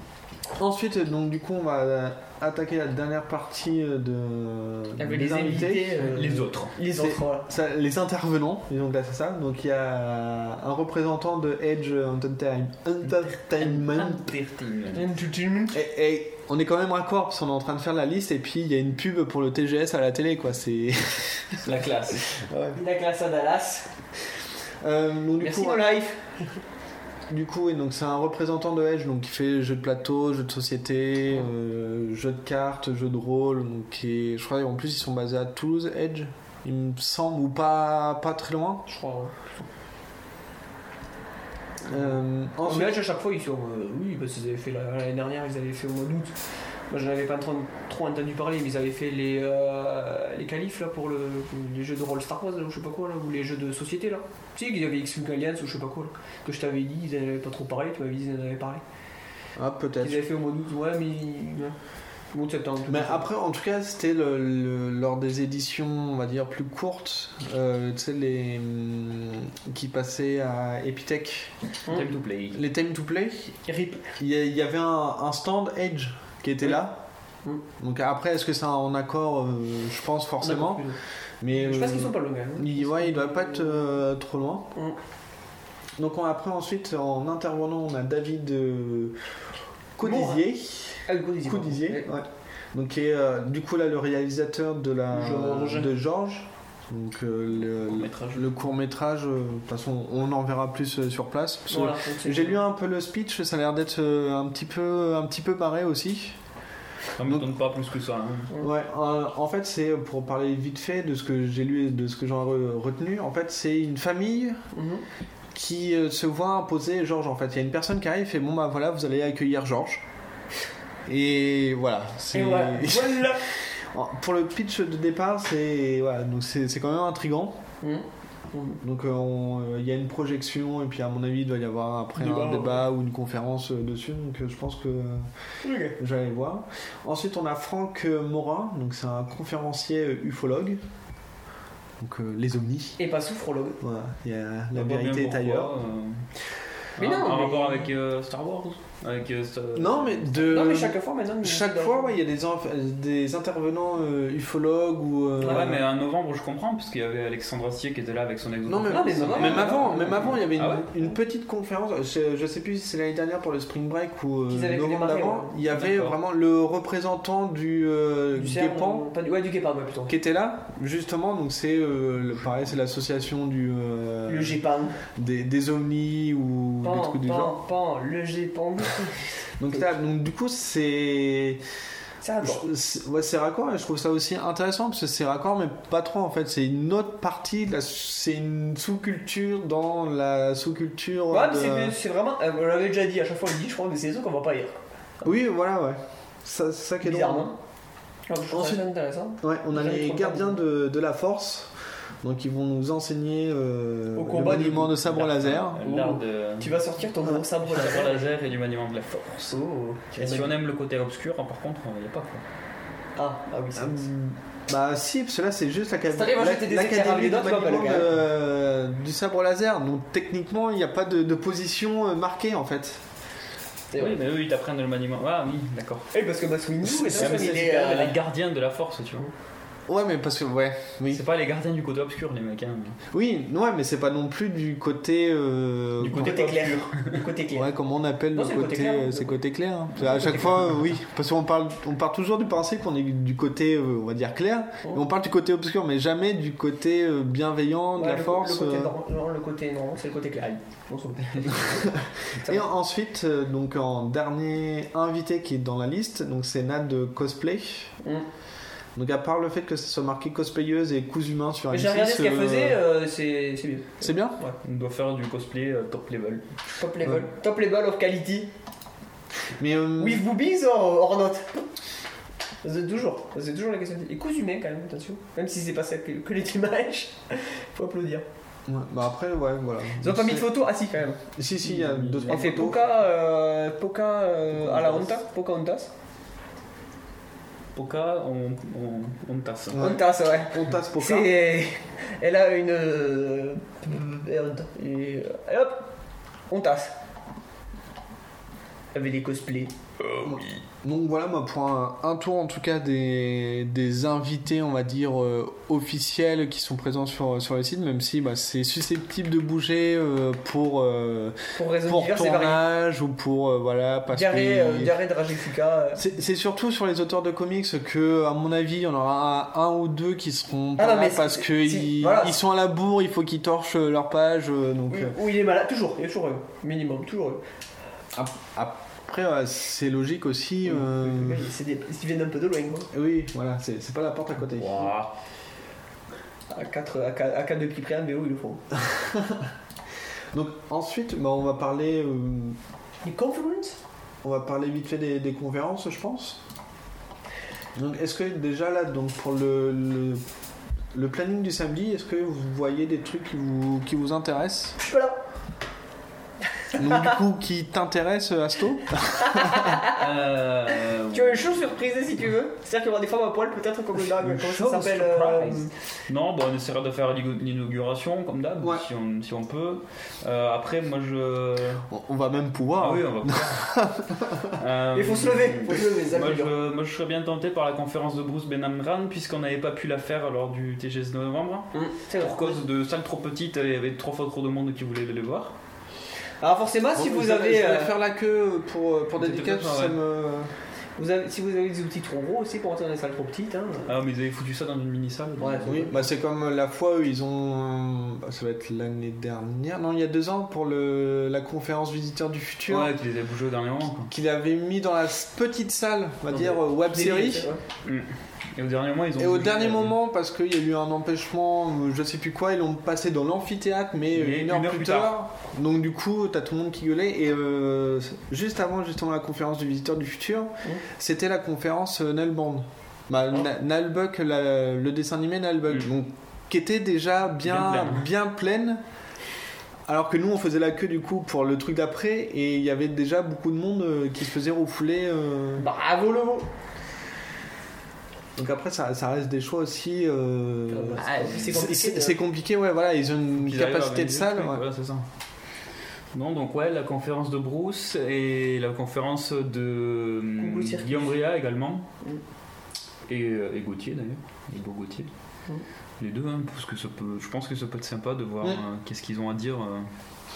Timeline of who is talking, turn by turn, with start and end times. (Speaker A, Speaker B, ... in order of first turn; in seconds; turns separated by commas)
Speaker A: 0.5-6.2, Speaker B: 5.0-7.5, Speaker C: 6.0-6.8, Speaker A: 6.9-14.3, Speaker C: 13.6-15.1, Speaker B: 14.9-15.8, Speaker A: 15.7-21.7, Speaker C: 21.6-22.2, Speaker A: 22.3-22.8, Speaker B: 22.7-23.9, Speaker A: 24.8-25.8, Speaker B: 25.4-26.6, Speaker A: 27.3-38.8, Speaker B: 38.9-39.7, Speaker A: 41.9-43.0, Speaker B: 42.6-46.4, Speaker B: 46.9-58.8, Speaker A: 59.6-60.3, Speaker B: 60.0-61.8, Speaker B: 62.3-63.2, Speaker A: 62.9-71.5, Speaker C: 71.9-72.6, Speaker A: 72.5-77.0, Speaker A: 77.8-80.8, Speaker B: 80.4-81.0, Speaker A: 81.4-84.7, Speaker B: 81.5-84.0, Speaker A: 86.0-89.2, Speaker A: 90.0-106.4, Speaker B: 90.0-90.5, Speaker B: 91.0-92.1, Speaker B: 95.1-95.9, Speaker C: 97.8-98.6, Speaker B: 101.7-102.6, Speaker C: 107.2-108.5, Speaker A: 107.2-107.5, Speaker A: 108.6-114.6, Speaker B: 114.7-115.0, Speaker A: 115.5-120.0, Speaker A: 121.1-127.6, Speaker B: 122.3-123.5, Speaker B: 127.8-128.8, Speaker A: 128.8-135.3, Speaker B: 132.2-132.8, Speaker B: 135.6-136.0, Speaker A: 136.0-140.8, Speaker A: 142.0-143.0, Speaker B: 143.0-143.8, Speaker A: 143.8-145.7, Speaker C: 144.7-146.2, Speaker C: 147.0-150.5, Speaker B: 147.0-147.9, Speaker A: 149.8-155.8, Speaker B: 150.4-152.2, Speaker B: 155.4-155.7, Speaker C: 155.4-160.9, Speaker A: 158.7-169.1, Speaker B: 158.9-160.4, Speaker B: 164.5-165.6, Speaker C: 165.7-166.2, Speaker B: 168.3-170.2, Speaker A: 170.1-174.6, Speaker B: 174.3-175.0, Speaker A: 175.2-177.6, Speaker B: 176.8-179.9, Speaker A: 179.6-181.6, Speaker B: 182.2-182.7, Speaker A: 182.4-191.9, Speaker B: 191.3-194.8, Speaker A: 195.2-197.5, Speaker B: 197.0-197.6, Speaker B: 198.3-200.6, Speaker A: 198.5-198.9, Speaker A: 199.4-205.8, Speaker B: 204.1-205.0, Speaker C: 205.0-206.8, Speaker B: 205.8-208.3, Speaker C: 207.6-209.6, Speaker B: 209.5-210.5, Speaker C: 210.2-212.4, Speaker B: 213.2-214.1, Speaker A: 213.8-223.0, Speaker B: 216.1-218.1, Speaker B: 223.9-224.2, Speaker C: 224.0-226.1, Speaker B: 226.1-228.2, Speaker A: 226.8-227.6, Speaker C: 227.1-229.3, Speaker A: 229.9-231.2, Speaker C: 231.1-233.0, Speaker A: 233.1-236.5, Speaker C: 236.0-237.2, Speaker B: 236.1-237.7, Speaker A: 237.5-248.9, Speaker B: 238.3-239.4, Speaker B: 240.0-240.8, Speaker B: 248.0-252.7, Speaker A: 251.6-257.9, Speaker A: 258.9-262.8, Speaker B: 261.7-264.6, Speaker A: 264.0-264.4, Speaker C: 264.6-266.4, Speaker B: 266.8-268.5, Speaker A: 269.6-270.2, Speaker B: 270.0-271.7, Speaker B: 272.6-278.2, Speaker A: 278.7-280.5, Speaker B: 280.0-281.2, Speaker A: 281.4-282.8, Speaker C: 281.6-282.6, Speaker B: 282.3-285.9, Speaker C: 284.5-285.1, Speaker C: 287.8-289.9, Speaker A: 289.7-291.3, Speaker B: 289.8-295.9, Speaker B: 296.5-296.9, Speaker B: 298.9-299.7, Speaker A: 300.2-314.9, Speaker B: 311.6-312.6, Speaker B: 314.1-316.0, Speaker A: 316.0-325.2, Speaker B: 320.8-322.4, Speaker B: 324.9-327.4, Speaker A: 328.1-331.5, Speaker B: 330.6-332.9, Speaker A: 332.9-334.9, Speaker C: 334.5-335.1, Speaker B: 336.5-338.6, Speaker A: 338.8-339.5, Speaker A: 340.3-342.6, Speaker B: 343.0-343.8, Speaker A: 344.2-346.4, Speaker A: 347.8-350.2, Speaker A: 350.9-354.8, Speaker B: 354.8-355.2, Speaker A: 356.8-359.8, Speaker B: 359.2-360.0, Speaker C: 359.9-361.7, Speaker B: 361.1-365.7, Speaker C: 364.2-371.9, Speaker A: 371.9-374.6, Speaker C: 372.8-373.7, Speaker C: 374.5-385.5, Speaker B: 374.9-376.5, Speaker B: 381.7-382.6, Speaker B: 386.4-387.9, Speaker A: 386.9-390.5, Speaker C: 389.2-389.9, Speaker B: 389.4-389.9, Speaker B: 391.0-393.9, Speaker C: 393.9-395.9, Speaker B: 395.4-396.0, Speaker A: 395.7-402.9, Speaker C: 402.7-404.1, Speaker A: 404.1-407.5, Speaker B: 406.3-407.6, Speaker C: 407.9-409.9, Speaker A: 409.2-428.8, Speaker C: 414.1-415.1, Speaker C: 427.4-428.1, Speaker A: 429.9-435.7, Speaker B: 435.6-436.5, Speaker A: 438.4-444.6, Speaker B: 440.7-442.2, Speaker C: 441.0-441.5, Speaker C: 443.4-445.1, Speaker C: 446.1-451.9, Speaker B: 450.4-451.2, Speaker C: 453.1-455.1, Speaker C: 456.0-459.9